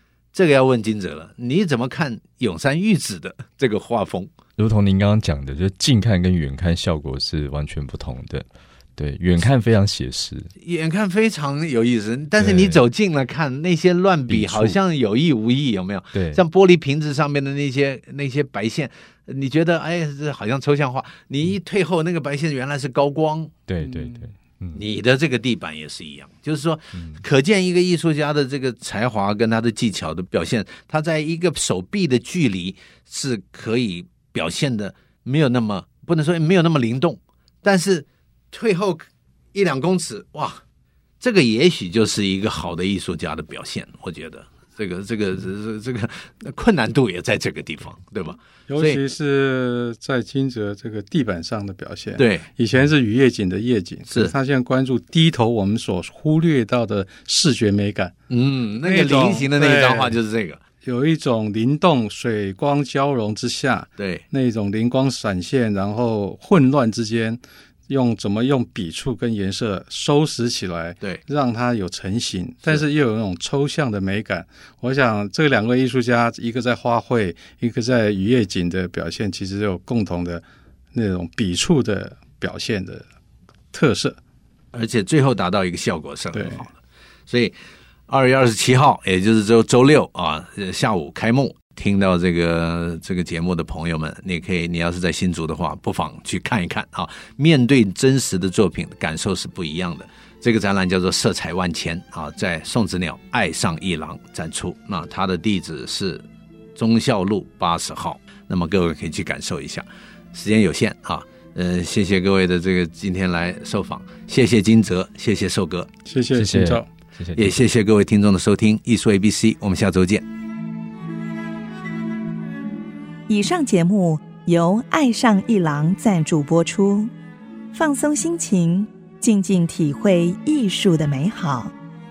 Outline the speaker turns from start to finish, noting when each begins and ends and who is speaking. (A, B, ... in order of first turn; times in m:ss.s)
0:00.3-0:04.3 A
0:04.6-0:10.5 B
0:10.6-0:23.5 A
0:12.4-0:12.8 B
0:14.3-0:14.8 B
0:16.1-0:16.4 B
0:23.7-0:24.8 B
0:24.7-0:40.6 A
0:26.9-0:27.2 B
0:41.2-0:49.0 A
0:48.7-0:58.1 C
0:52.2-0:52.5 A
0:58.3-1:00.6 A
0:58.8-1:00.2 C
1:00.8-1:23.0 C
1:04.0-1:04.2 A
1:23.7-1:24.2 C
1:24.7-1:26.7 A
1:26.3-1:26.6 C
1:27.3-1:27.5 A
1:28.1-1:46.2 A
1:46.8-1:55.9 A
1:56.0-1:56.9 C
1:56.3-1:57.6 B
1:57.4-2:00.2 A
2:03.3-2:07.1 D
2:07.7-2:11.7 D